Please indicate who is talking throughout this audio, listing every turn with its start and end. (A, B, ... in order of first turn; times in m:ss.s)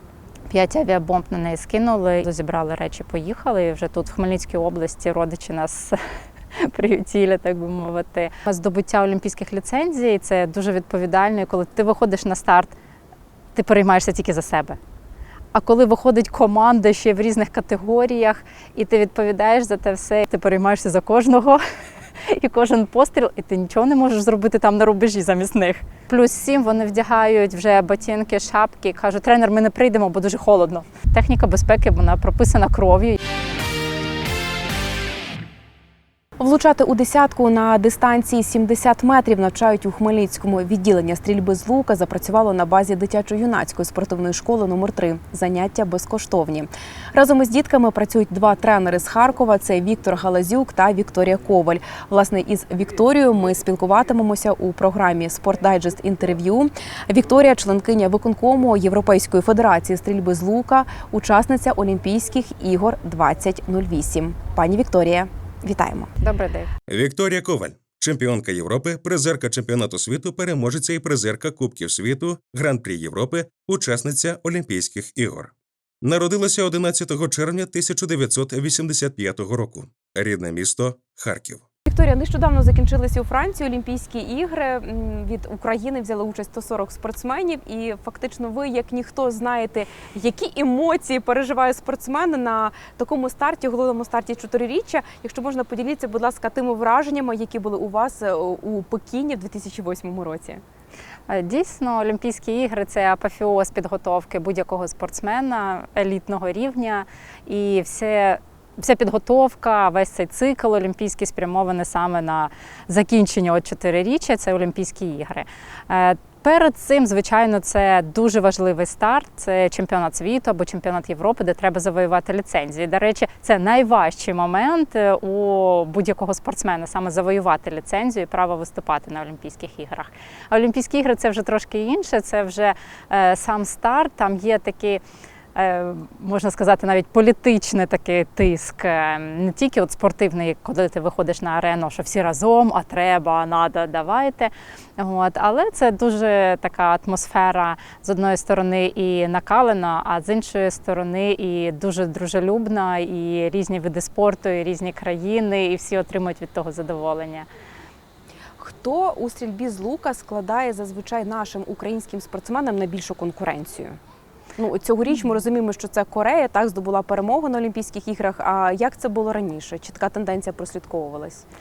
0:00.5-0:06.0 A
0:06.5-0:12.7 A
0:13.6-0:14.8 A
0:15.5-0:21.6 A
0:22.3-0:33.2 A
0:36.4-1:06.1 B
1:06.2-1:06.7 A
1:06.9-1:21.6 C
1:21.9-1:40.6 B
1:41.3-2:15.0 A
2:15.6-2:37.5 A
2:38.6-2:43.9 B
2:44.6-2:51.4 B